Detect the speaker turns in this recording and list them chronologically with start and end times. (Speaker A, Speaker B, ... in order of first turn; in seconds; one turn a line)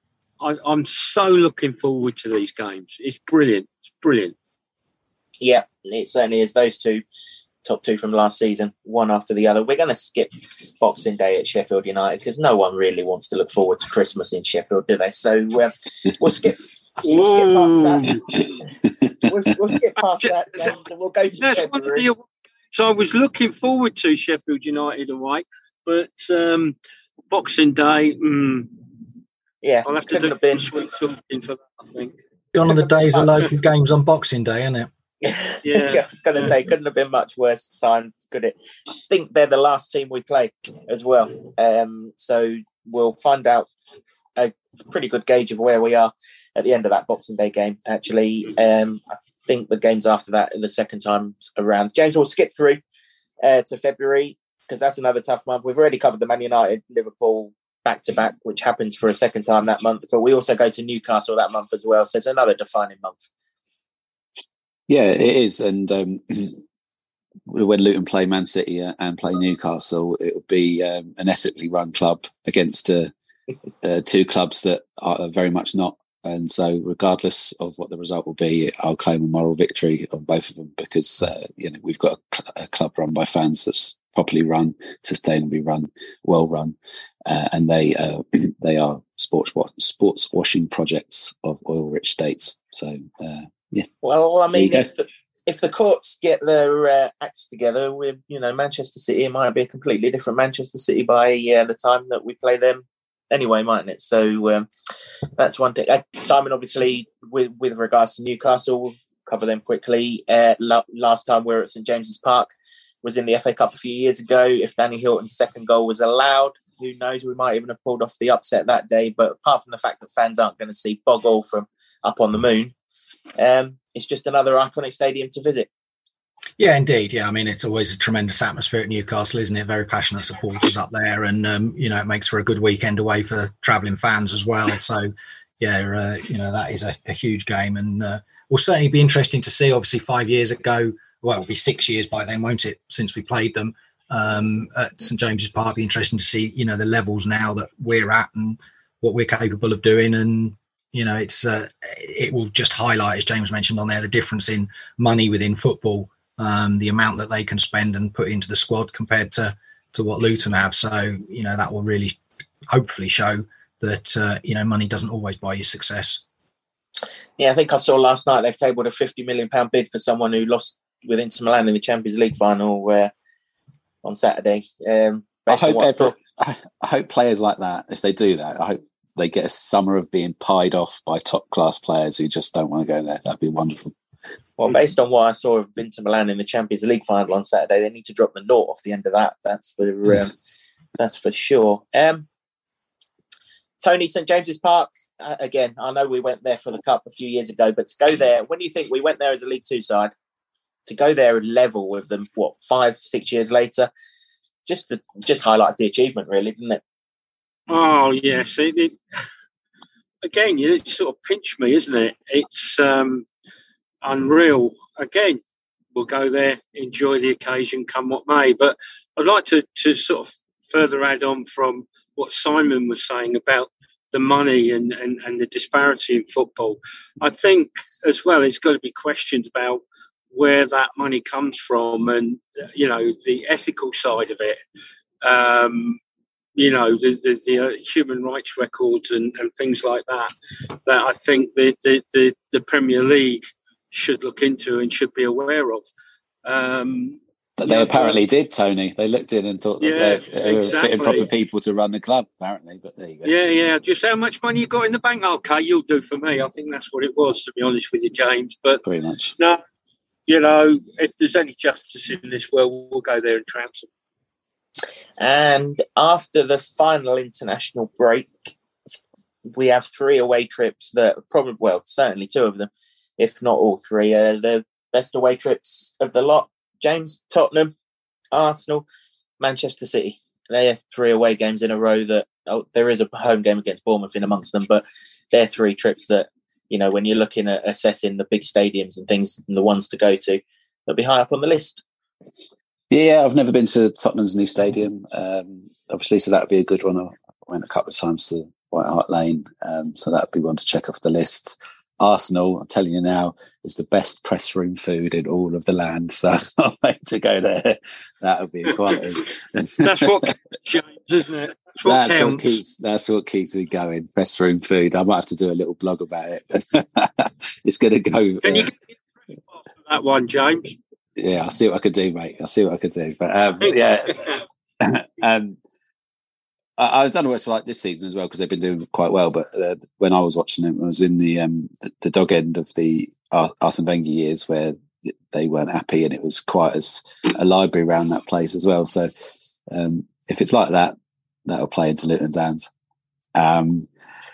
Speaker A: 0.4-4.3
Speaker B: 5.4-7.0
Speaker B: 7.6-18.5
Speaker A: 17.0-18.2
Speaker B: 19.2-22.1
Speaker A: 20.2-20.7
Speaker A: 21.4-22.2
Speaker A: 22.7-26.8
Speaker A: 27.3-28.8
Speaker B: 29.6-30.7
Speaker A: 29.9-32.2
Speaker C: 32.5-34.9
Speaker B: 32.6-33.5
Speaker B: 35.2-43.7
Speaker A: 35.6-36.0
Speaker B: 44.4-52.8
Speaker B: 53.4-63.3
Speaker D: 64.9-66.6
Speaker D: 67.5-73.1
Speaker D: 73.8-93.9
Speaker B: 94.0-104.7
Speaker D: 94.5-94.9
Speaker B: 105.4-112.5
Speaker B: 113.0-122.7
Speaker B: 123.4-125.7
Speaker C: 126.6-166.2
Speaker B: 167.4-173.1
Speaker B: 174.0-176.2
Speaker D: 175.5-183.9
Speaker B: 184.6-190.3
Speaker B: 191.0-192.3
Speaker B: 193.8-200.1
Speaker B: 200.9-203.9
Speaker B: 204.7-206.8
Speaker A: 207.7-209.0
Speaker A: 210.2-213.3
Speaker A: 214.0-215.4
Speaker A: 215.9-229.8
Speaker A: 230.3-234.6
Speaker A: 235.2-236.0
Speaker A: 236.6-240.3
Speaker A: 240.8-245.9
Speaker A: 246.4-248.2
Speaker D: 247.6-253.3
Speaker A: 249.8-251.3
Speaker A: 253.2-258.8
Speaker D: 258.8-259.4
Speaker A: 260.3-263.9
Speaker B: 265.2-268.5
Speaker B: 269.5-277.7
Speaker B: 278.3-278.9
Speaker B: 279.4-291.8
Speaker D: 292.9-310.2
Speaker A: 309.8-312.6
Speaker D: 311.8-318.7
Speaker A: 318.4-318.7
Speaker A: 319.5-320.8
Speaker D: 321.2-325.6
Speaker A: 323.6-324.4
Speaker D: 326.8-340.9
Speaker D: 341.5-342.7
Speaker D: 343.4-343.9